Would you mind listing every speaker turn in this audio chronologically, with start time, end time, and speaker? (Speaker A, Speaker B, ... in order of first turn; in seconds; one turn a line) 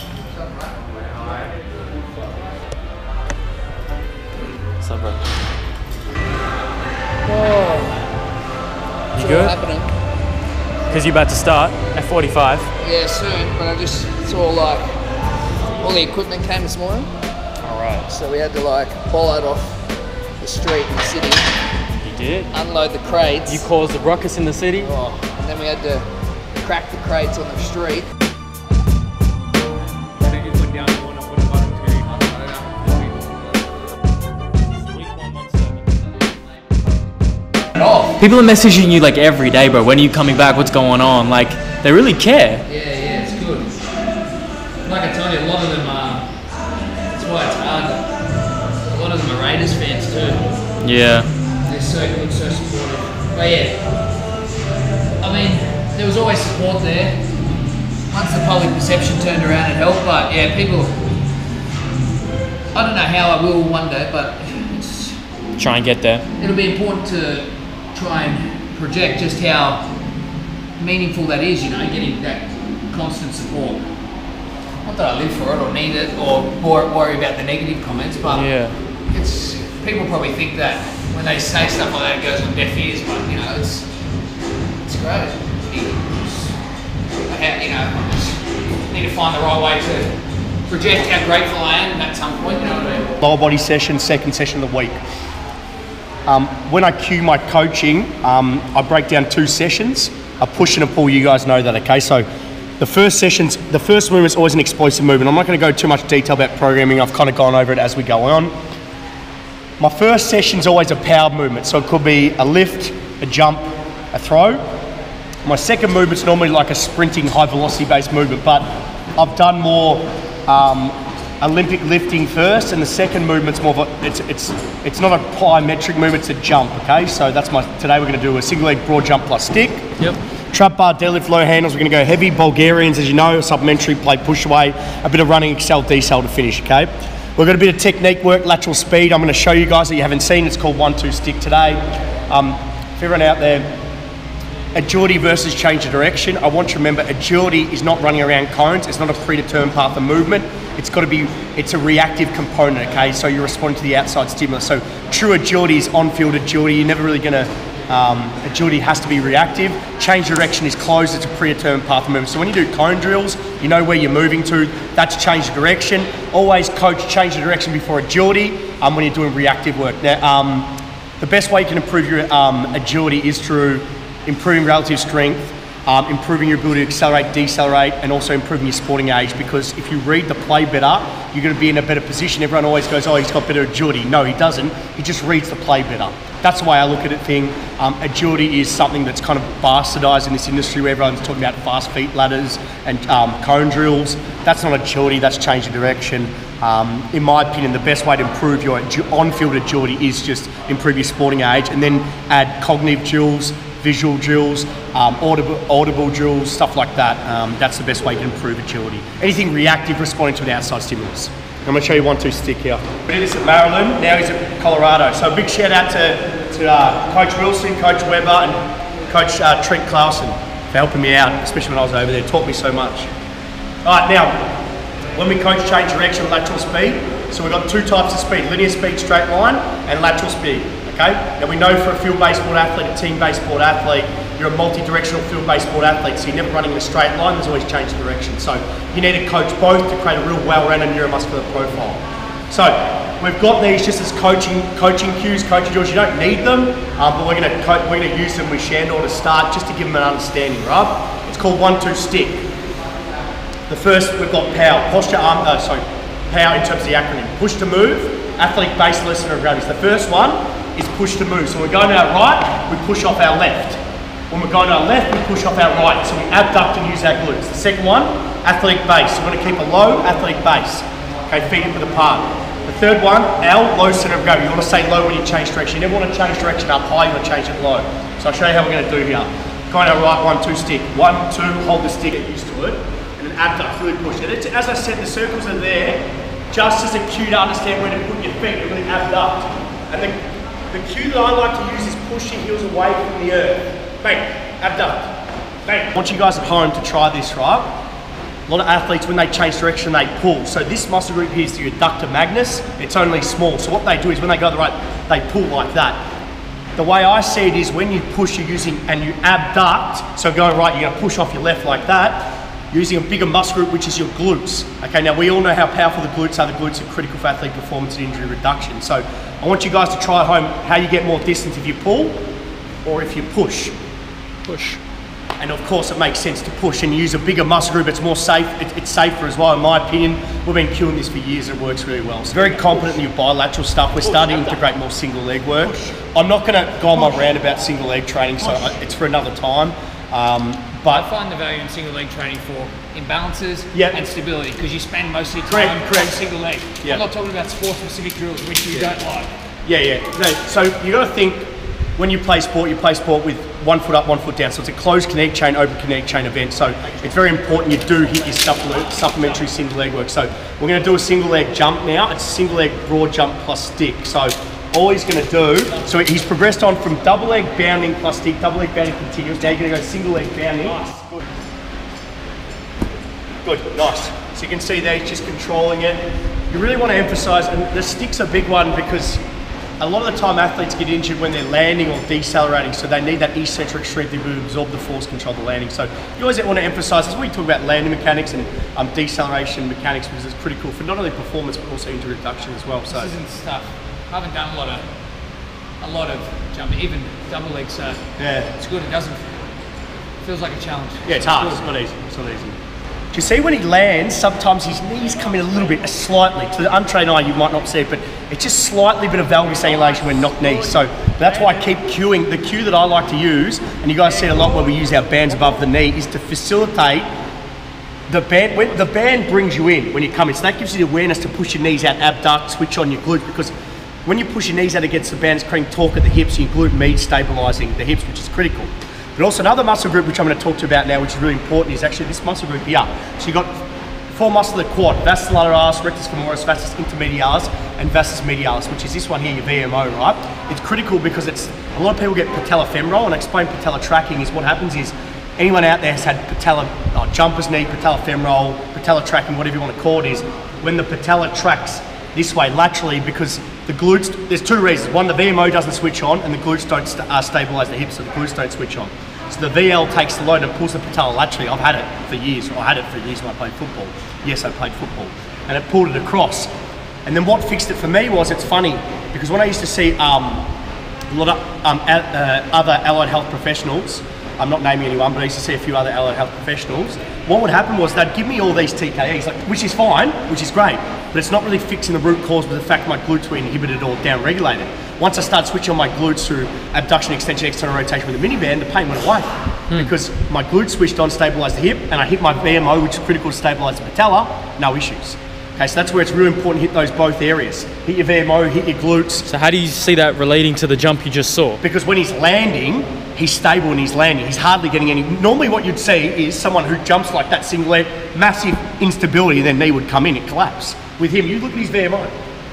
Speaker A: 0.3-0.8
Speaker B: 4.8-5.2
Speaker B: 7.3-7.8
Speaker A: 7.3-7.8
Speaker B: 9.1-9.5
Speaker A: 9.2-9.9
Speaker B: 10.9-12.7
Speaker A: 12.8-14.9
Speaker A: 15.8-17.1
Speaker B: 17.6-18.1
Speaker A: 18.1-19.8
Speaker A: 20.4-21.5
Speaker B: 22.0-22.5
Speaker A: 22.5-23.7
Speaker B: 23.5-24.9
Speaker A: 24.8-26.1
Speaker A: 26.6-28.1
Speaker A: 30.2-33.3
Speaker B: 34.8-36.0
Speaker A: 37.7-38.2
Speaker B: 38.2-42.6
Speaker A: 42.7-43.8
Speaker A: 44.9-46.3
Speaker A: 47.1-48.0
Speaker A: 48.9-50.5
Speaker B: 50.8-51.3
Speaker A: 51.6-53.8
Speaker A: 55.2-57.2
Speaker A: 58.1-61.0
Speaker A: 62.7-65.2
Speaker B: 65.6-66.2
Speaker A: 66.4-69.9
Speaker A: 70.8-73.8
Speaker A: 74.8-78.5
Speaker B: 78.3-78.8
Speaker A: 79.1-83.9
Speaker A: 84.8-86.6
Speaker A: 87.3-90.1
Speaker A: 90.7-93.1
Speaker C: 93.2-95.0
Speaker C: 96.3-102.2
Speaker C: 102.8-108.5
Speaker C: 109.8-114.6
Speaker C: 115.5-129.9
Speaker C: 130.5-143.7
Speaker C: 144.8-223.1
Speaker C: 223.8-224.4
Speaker C: 225.2-252.4
Speaker C: 253.7-263.8
Speaker C: 264.3-290.2
Speaker C: 290.7-297.7
Speaker C: 298.5-306.0
Speaker C: 306.8-322.2
Speaker C: 322.9-323.7
Speaker B: 324.5-324.8
Speaker C: 325.4-341.1
Speaker A: 340.9-349.3
Speaker C: 343.7-344.0
Speaker C: 345.5-346.2
Speaker C: 349.7-371.2
Speaker C: 373.4-379.2
Speaker C: 379.8-393.1
Speaker A: 392.9-394.8
Speaker A: 395.8-398.0
Speaker C: 398.2-398.5
Speaker A: 398.5-399.3
Speaker A: 400.2-401.7
Speaker C: 401.1-402.6
Speaker C: 403.1-417.1
Speaker C: 418.1-423.5
Speaker C: 424.1-466.5
Speaker C: 467.1-470.5
Speaker C: 471.1-499.3
Speaker B: 499.3-501.6
Speaker C: 501.6-512.1